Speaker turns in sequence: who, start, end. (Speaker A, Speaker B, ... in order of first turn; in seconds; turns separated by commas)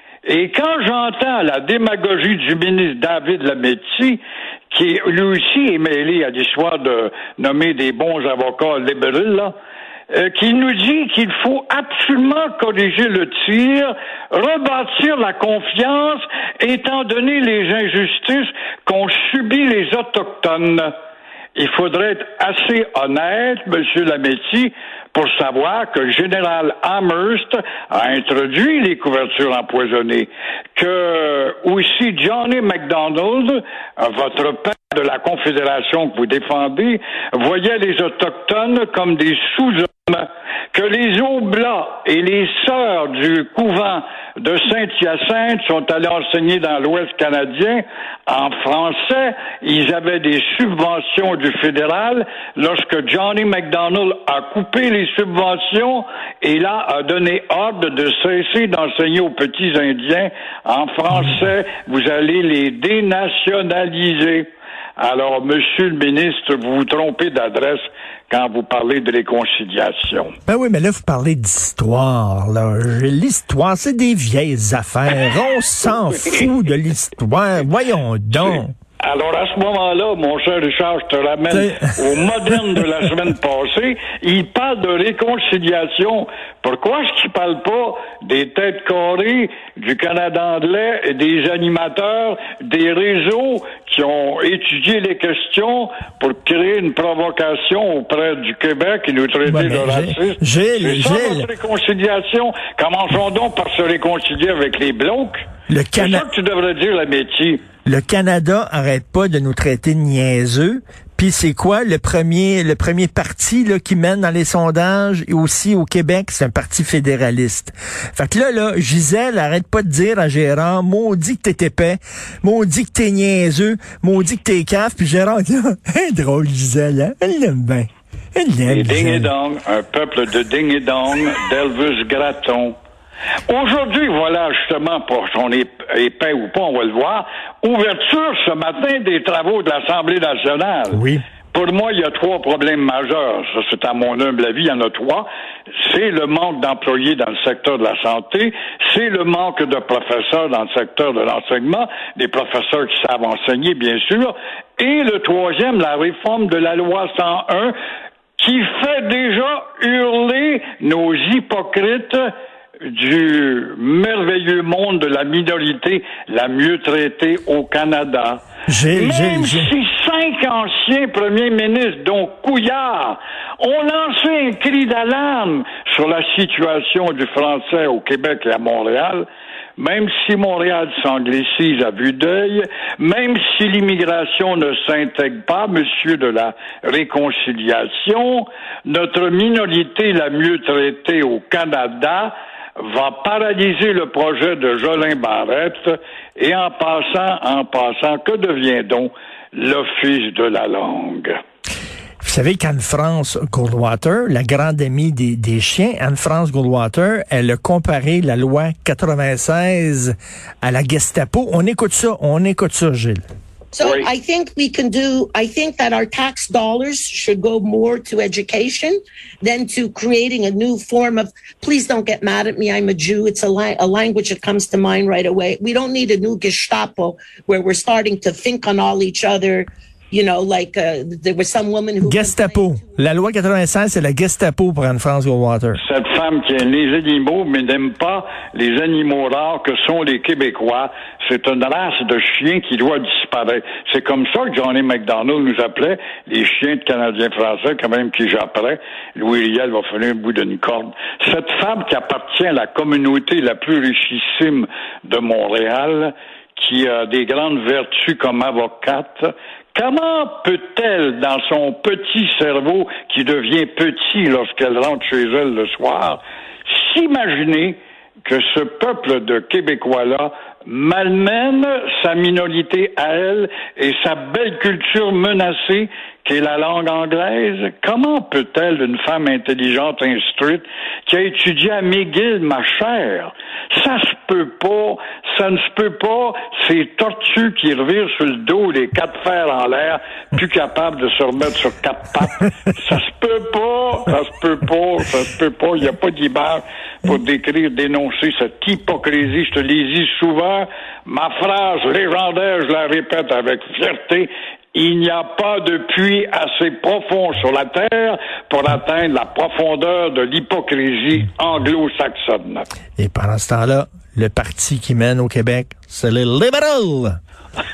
Speaker A: 0.2-9.5, Speaker A: 10.1-20.9, Speaker A: 21.5-70.3, Speaker B: 70.5-78.7, Speaker A: 75.1-76.5, Speaker A: 78.3-107.7, Speaker B: 81.5-81.8, Speaker B: 99.5-101.5, Speaker B: 105.7-106.3, Speaker B: 107.8-129.3, Speaker A: 128.7-132.7, Speaker A: 133.5-157.7, Speaker B: 140.9-141.2, Speaker A: 158.4-162.3, Speaker A: 162.8-168.4, Speaker B: 168.7-169.7, Speaker A: 168.9-201.3, Speaker B: 202.2-213.2, Speaker C: 213.7-232.9, Speaker A: 213.8-214.1, Speaker B: 232.0-235.8, Speaker A: 235.7-312.7, Speaker B: 313.0-317.2